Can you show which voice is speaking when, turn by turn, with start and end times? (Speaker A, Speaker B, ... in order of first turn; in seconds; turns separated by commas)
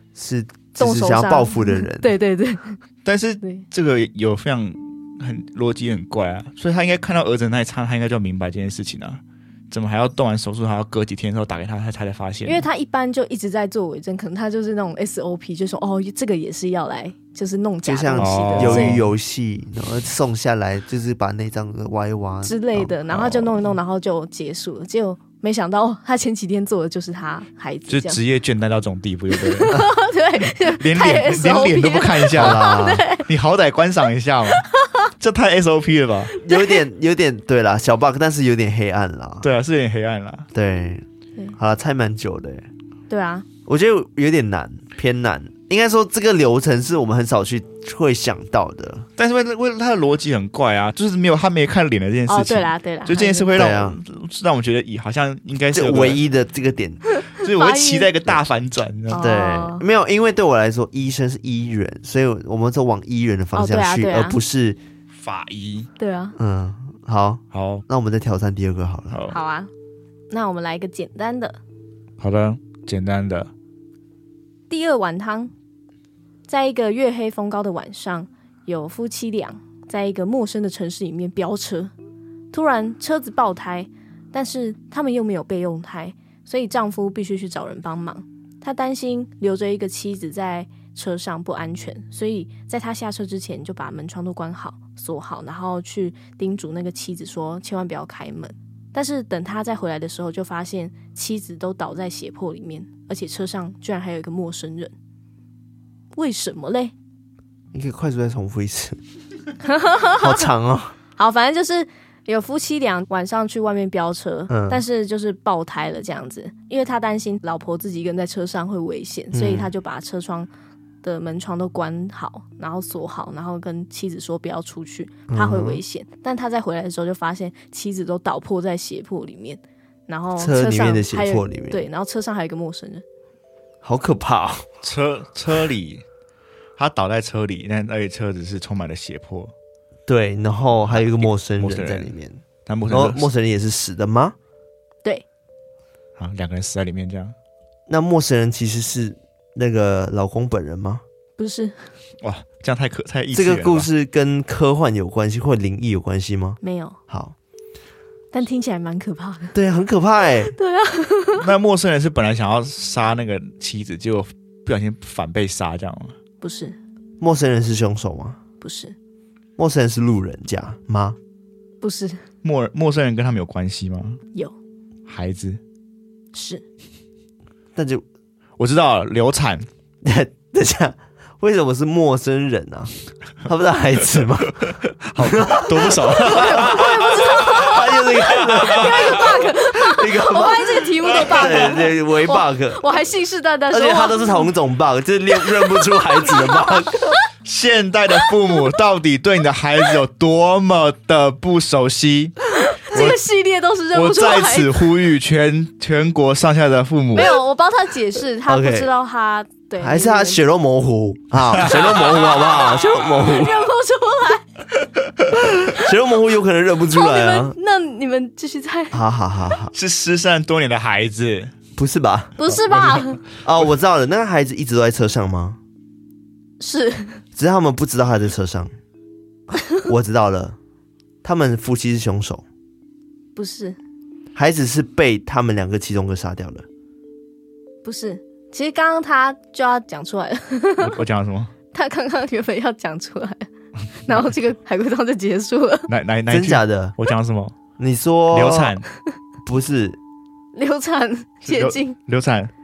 Speaker A: 0.1-2.1, Speaker B: 0.8-2.8, Speaker C: 3.0-12.7, Speaker B: 12.4-19.0, Speaker A: 17.9-22.9, Speaker C: 18.2-19.1, Speaker B: 22.4-28.2, Speaker C: 23.1-23.6, Speaker C: 27.9-29.8, Speaker B: 29.3-33.3, Speaker C: 30.6-34.7, Speaker A: 32.3-33.1, Speaker B: 34.5-34.9, Speaker C: 35.2-36.3, Speaker B: 36.3-36.8, Speaker A: 36.4-39.5, Speaker C: 39.4-40.5, Speaker A: 40.5-41.1, Speaker A: 41.6-42.7, Speaker B: 43.1-43.5, Speaker A: 43.7-49.1, Speaker C: 49.2-56.2, Speaker B: 52.3-53.5, Speaker A: 53.5-54.0, Speaker A: 55.7-57.0, Speaker B: 57.2-58.1, Speaker C: 57.4-59.2, Speaker B: 59.1-59.9, Speaker A: 59.2-64.8, Speaker B: 63.5-64.4, Speaker C: 65.1-65.9, Speaker B: 66.0-66.4, Speaker A: 66.4-69.2, Speaker C: 67.5-67.8, Speaker C: 69.1-69.4, Speaker B: 69.3-69.7, Speaker B: 70.3-71.6, Speaker C: 72.2-73.5, Speaker B: 74.7-75.5, Speaker B: 76.5-81.9, Speaker B: 82.5-104.9, Speaker B: 106.1-106.9, Speaker A: 107.7-109.0, Speaker B: 109.6-110.5, Speaker A: 110.2-111.0, Speaker B: 111.2-120.5, Speaker A: 114.5-114.8, Speaker A: 119.3-119.7, Speaker B: 121.0-133.0, Speaker A: 125.3-125.8, Speaker A: 130.4-131.8, Speaker A: 133.8-134.7, Speaker C: 134.8-136.0, Speaker C: 136.8-139.5, Speaker A: 140.1-142.4, Speaker C: 140.9-142.1, Speaker C: 142.7-143.2, Speaker A: 142.9-144.3, Speaker C: 146.2-147.3, Speaker A: 147.9-151.0, Speaker B: 151.4-151.9, Speaker C: 152.2-153.9, Speaker A: 153.3-156.6, Speaker B: 156.6-157.0, Speaker A: 157.1-157.3, Speaker B: 158.3-159.5, Speaker A: 159.5-160.5, Speaker B: 160.6-161.4, Speaker C: 161.3-166.2, Speaker B: 166.4-166.8, Speaker A: 167.2-168.4, Speaker B: 168.6-168.9, Speaker A: 169.6-171.2, Speaker B: 171.8-172.2, Speaker C: 172.4-174.2, Speaker C: 175.1-175.6, Speaker B: 176.3-176.6, Speaker A: 177.8-178.0, Speaker C: 178.6-179.7, Speaker A: 180.0-182.9, Speaker A: 183.4-192.8, Speaker C: 185.0-189.3, Speaker B: 186.3-187.8, Speaker B: 188.3-194.5, Speaker C: 191.1-191.8, Speaker A: 193.7-197.0, Speaker B: 195.6-197.2, Speaker C: 197.4-203.2, Speaker B: 202.7-204.8, Speaker C: 203.9-207.4, Speaker B: 207.2-210.4, Speaker A: 208.5-208.9, Speaker A: 209.8-213.6, Speaker C: 211.6-213.1, Speaker B: 213.2-214.5, Speaker A: 215.5-217.6, Speaker B: 216.9-219.0, Speaker A: 218.9-219.7, Speaker C: 219.7-221.5, Speaker A: 221.8-222.3, Speaker B: 222.4-223.2, Speaker C: 222.4-223.2, Speaker A: 223.4-225.6, Speaker B: 226.6-227.2, Speaker A: 227.4-228.7, Speaker A: 229.8-230.6, Speaker A: 231.2-232.4, Speaker B: 233.4-233.8, Speaker A: 234.3-236.7, Speaker B: 237.8-241.0, Speaker C: 240.8-241.5, Speaker B: 241.7-243.5, Speaker B: 244.0-245.9, Speaker C: 245.9-247.6, Speaker A: 246.3-246.9, Speaker A: 247.8-248.8, Speaker C: 248.3-248.9, Speaker A: 249.4-250.0, Speaker B: 250.5-252.0, Speaker C: 251.4-252.5